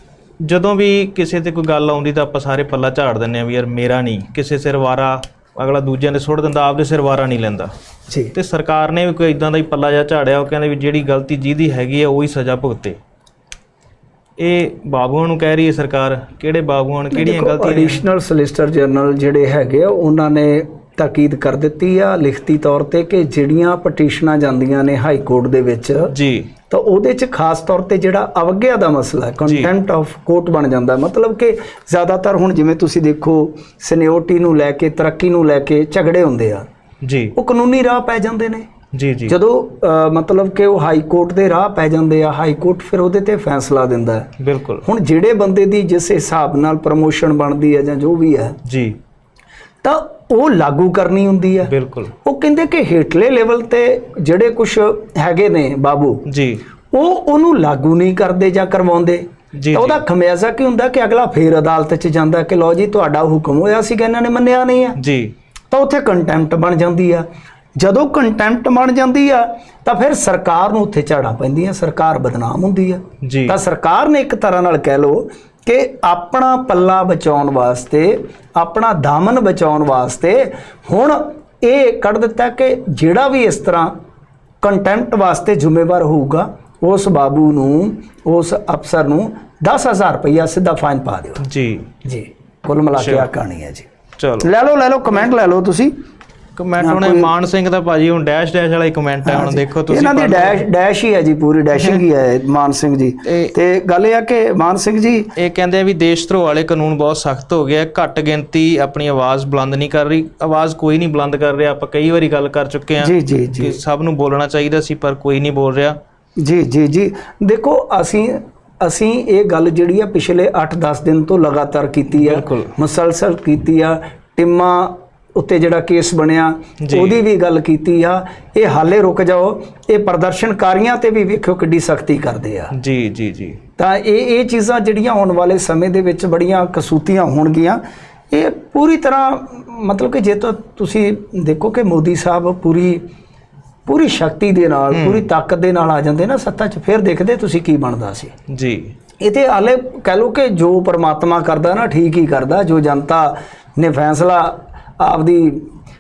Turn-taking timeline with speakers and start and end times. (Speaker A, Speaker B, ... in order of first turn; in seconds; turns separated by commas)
Speaker A: 0.4-7.7, Speaker B: 8.1-8.3, Speaker A: 8.3-13.0, Speaker A: 14.4-18.0, Speaker B: 17.1-26.1, Speaker A: 26.1-26.5, Speaker B: 26.7-36.6, Speaker A: 29.4-29.7, Speaker A: 37.0-37.3, Speaker B: 37.3-38.7, Speaker A: 38.9-39.4, Speaker B: 39.3-48.6, Speaker A: 44.4-44.8, Speaker A: 48.6-49.0, Speaker B: 49.8-56.2, Speaker A: 51.6-52.1, Speaker A: 56.2-56.6, Speaker B: 56.9-65.0, Speaker A: 59.6-60.0, Speaker A: 65.0-65.3, Speaker B: 65.7-67.2, Speaker B: 67.8-83.9, Speaker A: 73.2-73.6, Speaker B: 84.6-91.4, Speaker A: 91.4-91.9, Speaker B: 92.0-93.9, Speaker A: 93.0-93.3, Speaker A: 94.2-94.5, Speaker B: 94.4-95.9, Speaker A: 96.6-100.6, Speaker B: 96.8-97.3, Speaker B: 99.2-105.3, Speaker A: 101.8-102.0, Speaker A: 103.3-103.5, Speaker A: 105.4-116.0, Speaker B: 113.0-113.8, Speaker B: 116.4-132.7, Speaker A: 122.1-122.7, Speaker A: 126.8-127.2, Speaker A: 132.7-133.6, Speaker B: 133.8-137.8, Speaker B: 138.3-143.0, Speaker B: 143.8-148.3, Speaker A: 144.9-145.2, Speaker A: 148.5-148.9, Speaker B: 149.2-155.7